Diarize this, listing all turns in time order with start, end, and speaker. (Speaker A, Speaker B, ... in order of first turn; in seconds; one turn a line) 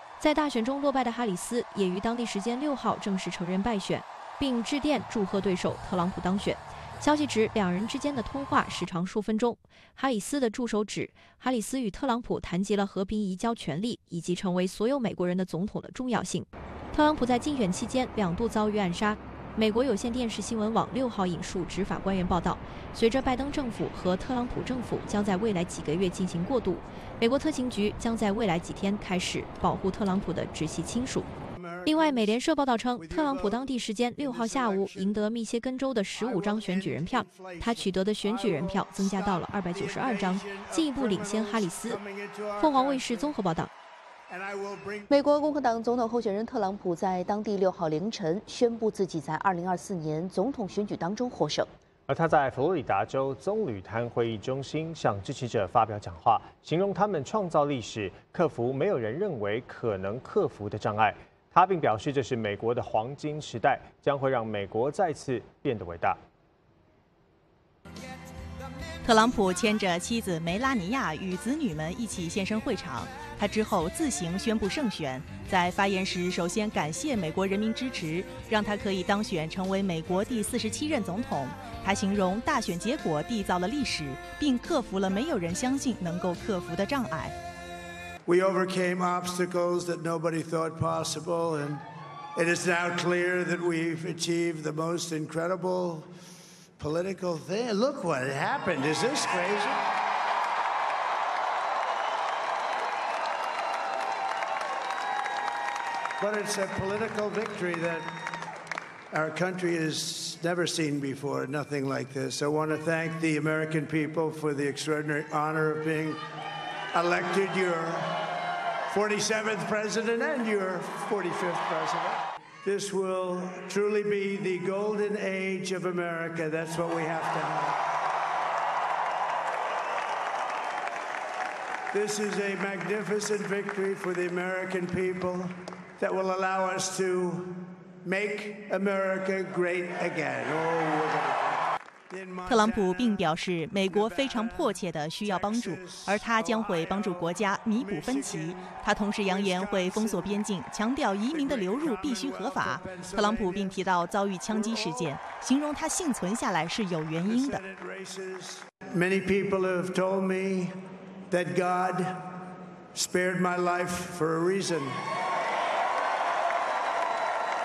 Speaker A: 0.2-31.3
Speaker B: 31.5-32.4
Speaker A: 31.9-42.0
Speaker B: 33.0-35.2
Speaker B: 36.1-43.4
Speaker A: 42.6-43.7
Speaker B: 44.3-45.1
Speaker C: 45.1-51.7
Speaker D: 52.1-66.2
Speaker E: 69.0-87.3
Speaker B: 88.2-96.1
Speaker B: 96.8-99.8
Speaker B: 106.2-108.4
Speaker B: 109.1-116.2
Speaker B: 116.9-118.3
Speaker B: 118.9-127.8
Speaker B: 131.9-150.5
Speaker E: 142.5-157.6
Speaker B: 151.2-153.8
Speaker B: 154.4-155.2
Speaker B: 157.2-165.0